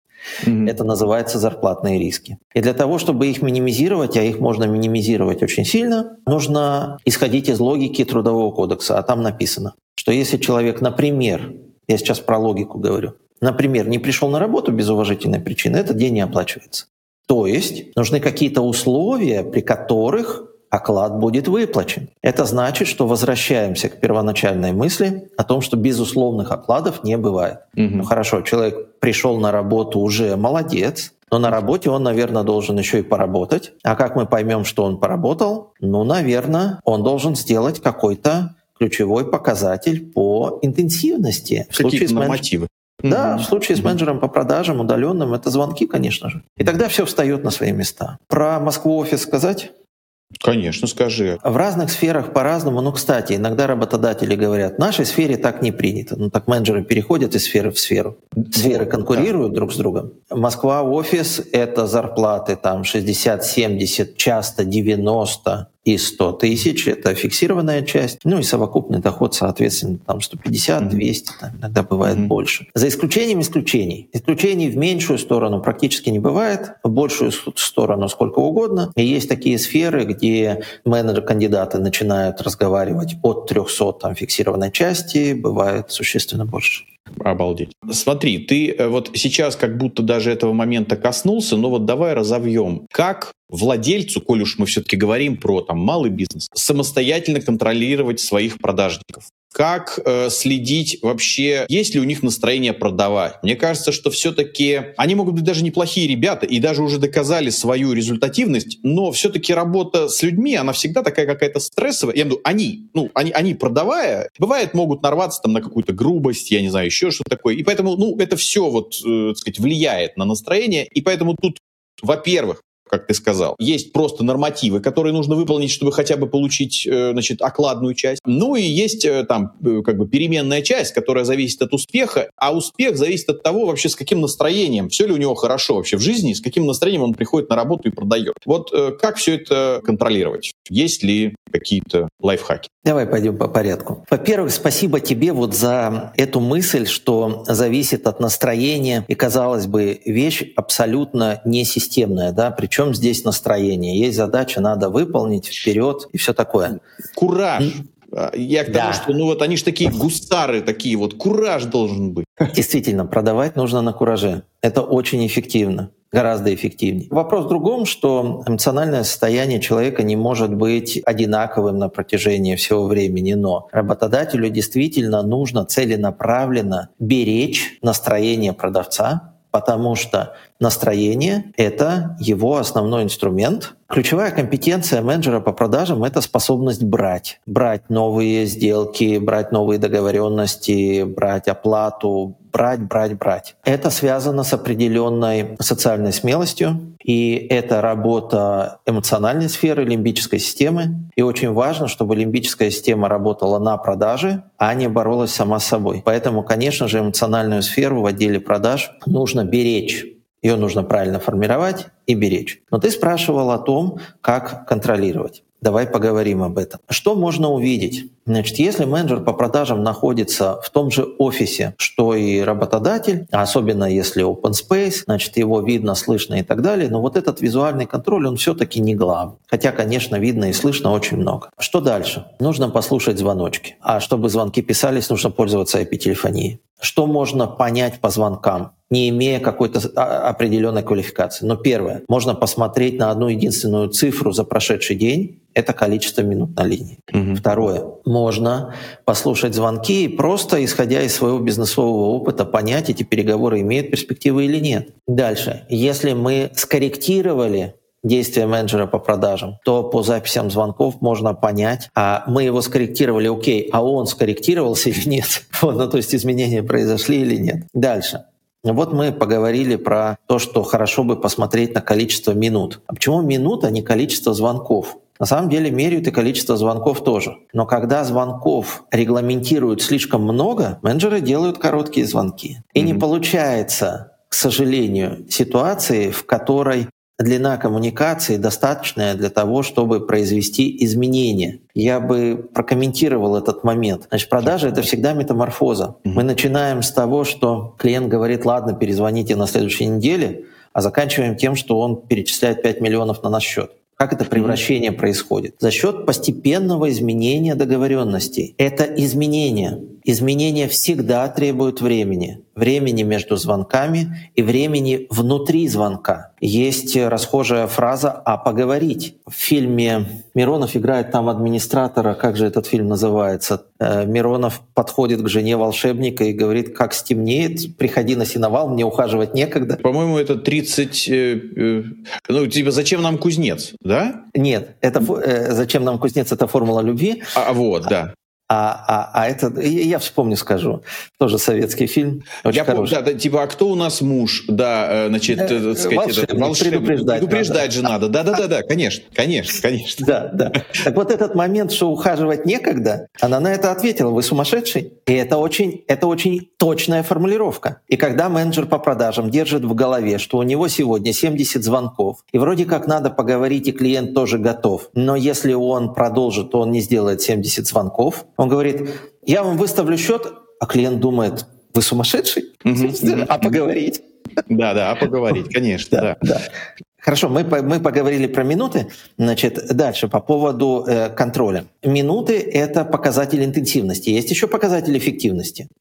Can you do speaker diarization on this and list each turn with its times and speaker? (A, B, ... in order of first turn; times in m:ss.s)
0:00.4-0:00.7 A
0:00.6-0:42.4 B
0:27.8-0:28.1 A
0:41.8-0:44.0 A
0:43.1-0:49.7 B
0:50.4-0:51.4 A
0:51.4-1:26.9 B
0:58.5-0:59.3 A
1:12.1-1:12.3 A
1:27.2-2:22.7 A
2:22.8-2:36.8 B
2:37.1-2:42.5 A
2:38.7-2:39.1 B
2:42.5-5:29.8 B
4:07.1-4:07.4 A
4:42.8-4:43.0 A
5:04.4-5:04.6 A
5:29.8-5:34.2 A
5:34.3-5:37.3 B
5:37.4-5:38.1 A
5:38.5-5:43.0 B
5:42.5-5:50.8 A
5:45.3-5:47.9 B
5:50.0-6:14.0 B
6:12.6-6:13.6 A
6:14.5-6:16.3 A
6:15.9-6:16.5 B
6:17.0-6:25.7 B